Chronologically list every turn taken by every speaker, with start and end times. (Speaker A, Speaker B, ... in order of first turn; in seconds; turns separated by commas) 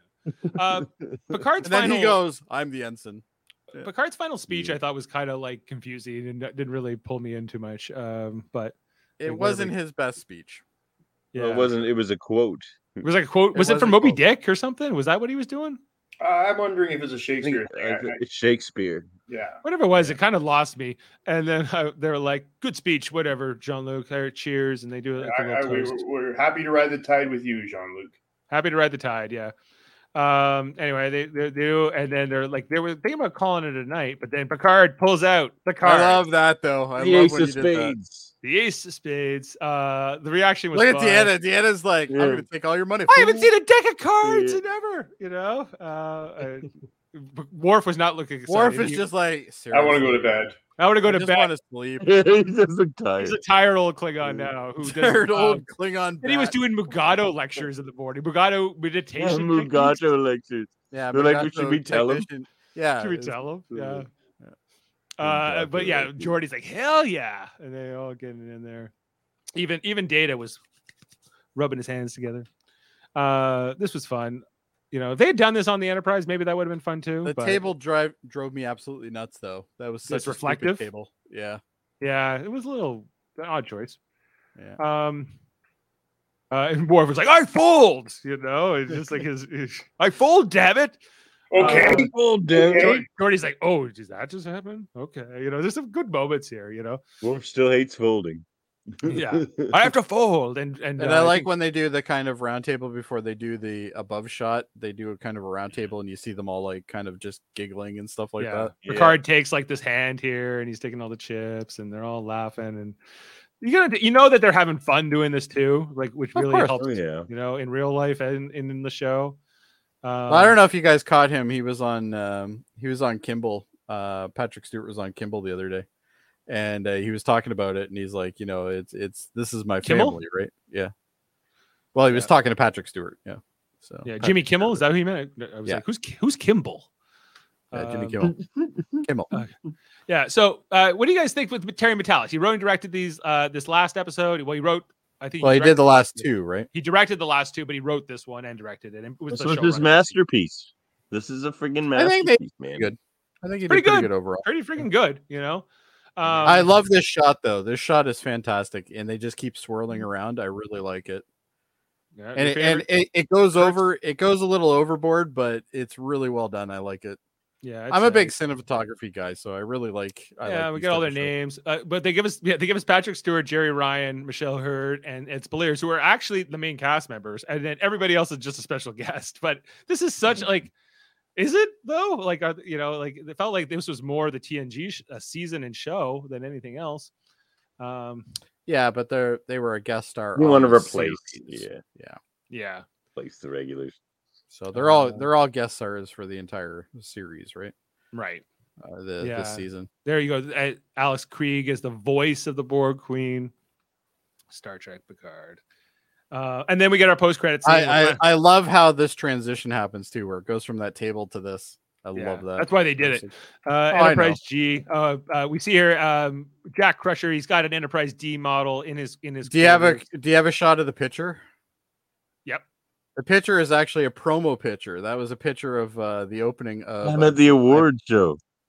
Speaker A: 0.4-1.4, Speaker B: 0.4-2.2, Speaker C: 1.6-3.9, Speaker B: 3.7-8.7, Speaker A: 4.5-4.8, Speaker C: 9.2-10.6, Speaker B: 9.2-9.7, Speaker B: 11.3-11.8, Speaker A: 11.3-13.0, Speaker B: 13.0-15.8, Speaker C: 13.5-14.2, Speaker D: 16.2-18.2, Speaker A: 17.4-19.1, Speaker D: 19.3-19.6, Speaker B: 19.6-26.0, Speaker D: 25.2-28.1, Speaker B: 28.5-29.5, Speaker B: 30.1-36.2, Speaker C: 35.8-37.9, Speaker A: 37.0-38.3, Speaker B: 38.4-41.3, Speaker C: 40.7-43.5, Speaker A: 42.1-42.4, Speaker B: 43.1-49.1, Speaker A: 44.2-44.6, Speaker C: 48.5-50.4, Speaker D: 49.7-50.6, Speaker B: 50.8-51.5, Speaker C: 51.0-52.1, Speaker A: 52.0-53.4, Speaker B: 53.2-55.6, Speaker C: 54.8-56.6, Speaker B: 56.2-60.0, Speaker A: 59.2-62.3, Speaker C: 60.9-63.5, Speaker B: 63.0-64.1, Speaker A: 63.7-64.0, Speaker B: 65.2-68.9, Speaker A: 65.2-66.3, Speaker B: 69.5-70.6, Speaker B: 71.5-72.5, Speaker B: 73.2-77.6, Speaker C: 77.2-81.6, Speaker B: 80.1-80.8, Speaker B: 82.0-84.0, Speaker B: 84.8-85.3, Speaker B: 86.5-91.0, Speaker D: 91.5-93.0, Speaker B: 91.5-92.1, Speaker A: 91.6-93.0, Speaker B: 92.6-97.0, Speaker A: 97.2-98.4, Speaker A: 99.0-99.7, Speaker B: 99.0-101.5, Speaker C: 101.0-108.7, Speaker B: 108.4-113.0, Speaker A: 108.8-109.2, Speaker B: 113.6-119.4, Speaker A: 116.4-117.3, Speaker B: 120.0-120.6, Speaker C: 120.3-125.8, Speaker C: 126.5-130.9, Speaker B: 129.8-130.2, Speaker C: 131.9-134.8, Speaker B: 134.0-136.8, Speaker C: 137.7-138.3, Speaker B: 137.7-138.2, Speaker C: 139.0-139.3, Speaker B: 140.1-150.2, Speaker C: 145.4-146.7, Speaker A: 149.3-152.9, Speaker C: 151.9-154.4, Speaker B: 153.7-155.7, Speaker B: 156.2-156.7, Speaker C: 156.4-161.2, Speaker B: 162.1-162.9, Speaker C: 162.3-167.2, Speaker B: 163.5-163.9, Speaker B: 167.6-168.3, Speaker C: 167.9-171.3, Speaker B: 170.4-180.7, Speaker B: 181.3-187.1, Speaker B: 187.8-188.3, Speaker C: 188.7-192.2, Speaker A: 190.3-191.8, Speaker B: 192.5-192.8, Speaker A: 193.2-193.9, Speaker C: 194.5-197.7, Speaker B: 194.7-195.3, Speaker B: 198.1-198.4, Speaker C: 198.8-199.9, Speaker B: 199.2-203.5, Speaker B: 204.5-205.6, Speaker B: 206.3-208.2, Speaker C: 207.6-213.3, Speaker B: 212.1-220.0, Speaker C: 213.9-214.4, Speaker C: 219.4-221.4, Speaker C: 223.2-227.9, Speaker A: 227.0-228.4